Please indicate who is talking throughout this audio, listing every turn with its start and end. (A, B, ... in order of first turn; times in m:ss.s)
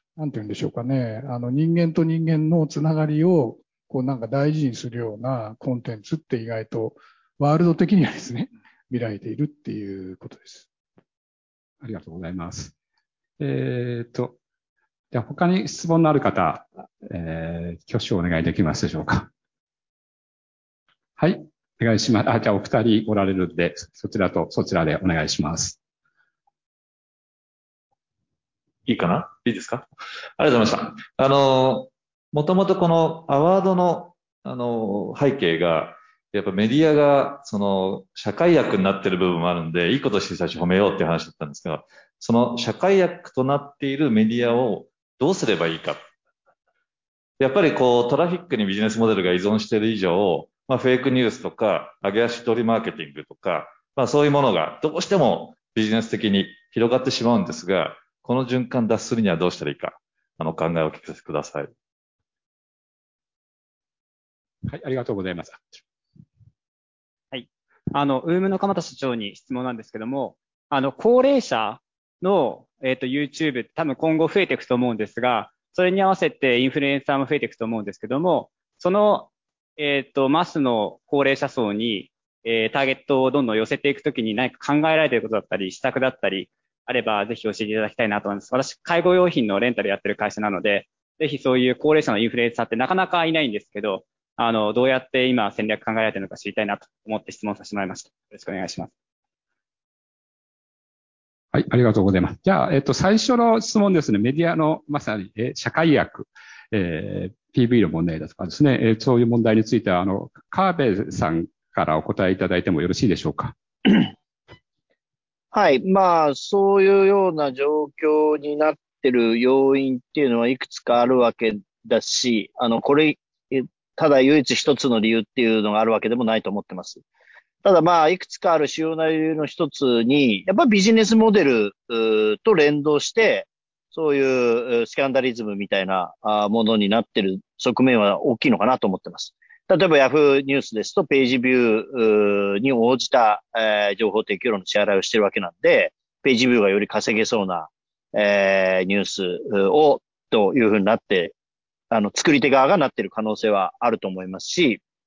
0:00.2-0:10.7 A
0:11.8-0:12.7 B
0:13.4-0:14.4 B
0:15.1-0:19.3 B
0:21.2-0:25.8 B
0:28.9-0:29.9 C
0:30.4-0:46.1 C
0:47.4-1:01.7 C
1:04.6-1:05.8 B
1:07.3-1:38.9 D
1:41.5-1:53.5 B
1:55.5-2:07.0 E
2:07.6-2:31.3 E
2:31.9-2:34.8 E